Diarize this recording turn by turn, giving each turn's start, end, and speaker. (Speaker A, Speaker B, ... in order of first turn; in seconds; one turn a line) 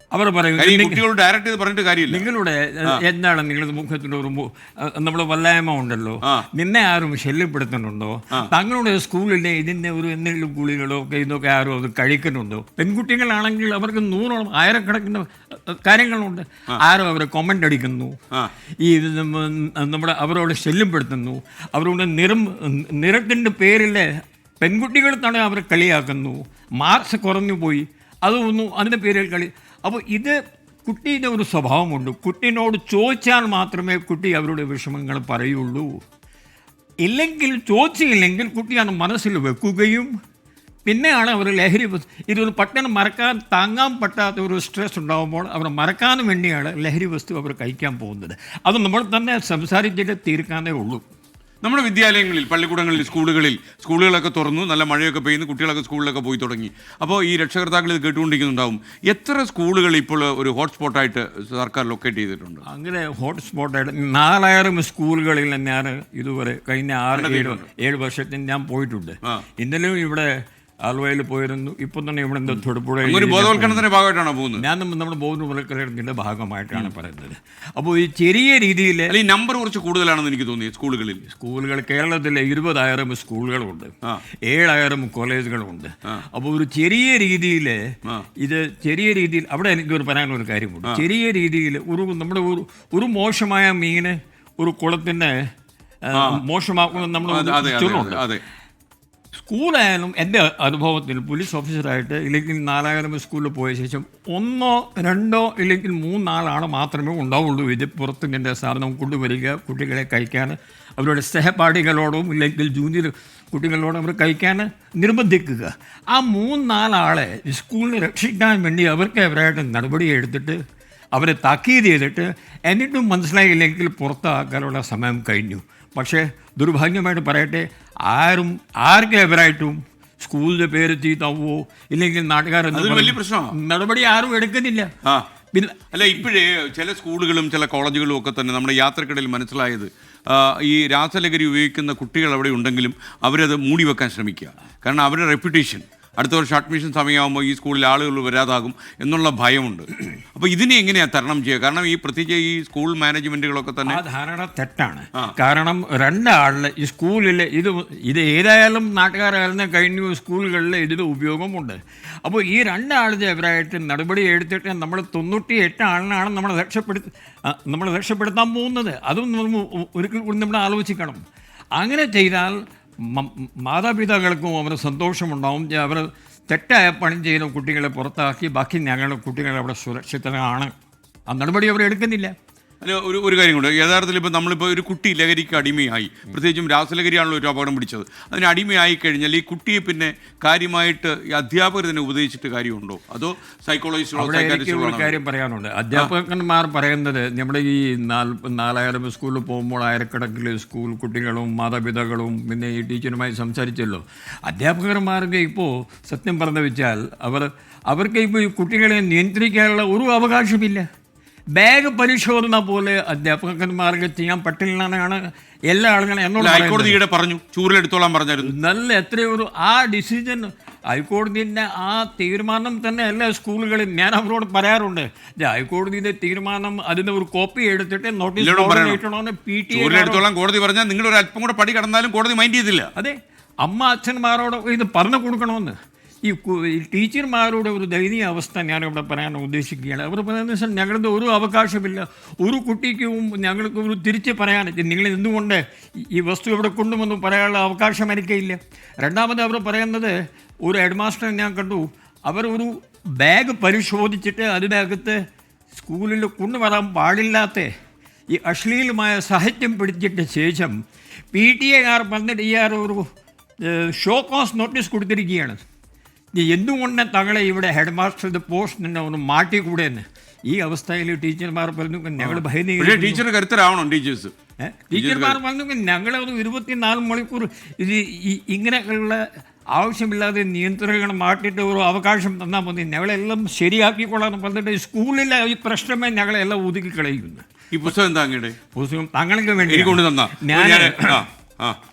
Speaker A: 0.1-1.0
Speaker B: 0.6-2.3
Speaker A: 2.1-18.2
Speaker A: 18.8-24.1
Speaker A: 24.6-36.0
Speaker A: 37.0-40.1
Speaker A: 40.9-51.0
Speaker B: 51.6-62.6
Speaker A: 62.7-73.8
Speaker B: 67.1-67.7
Speaker B: 72.5-74.6
Speaker A: 74.6-79.1
Speaker B: 79.1-81.2
Speaker A: 81.3-83.9
Speaker A: 84.5-87.8
Speaker A: 88.4-95.4
Speaker A: 96.0-98.2
Speaker B: 96.2-96.4
Speaker B: 97.2-98.4
Speaker A: 99.3-120.6
Speaker A: 121.1-134.9
Speaker B: 132.7-133.5
Speaker A: 135.5-136.1
Speaker B: 135.9-154.0
Speaker A: 153.9-171.2
Speaker A: 171.8-180.7
Speaker A: 181.3-182.3
Speaker B: 182.8-195.2
Speaker A: 194.2-210.9
Speaker A: 211.6-217.0
Speaker B: 216.4-218.5
Speaker A: 218.4-230.2
Speaker B: 228.4-229.0
Speaker B: 229.7-232.9
Speaker A: 233.0-255.2
Speaker A: 255.7-257.7
Speaker A: 258.3-260.8
Speaker A: 261.3-263.0
Speaker A: 263.6-265.6
Speaker A: 266.4-273.2
Speaker B: 272.2-274.3
Speaker A: 274.6-287.4
Speaker B: 274.9-275.4
Speaker B: 287.7-288.6
Speaker A: 288.7-291.2
Speaker B: 289.6-291.8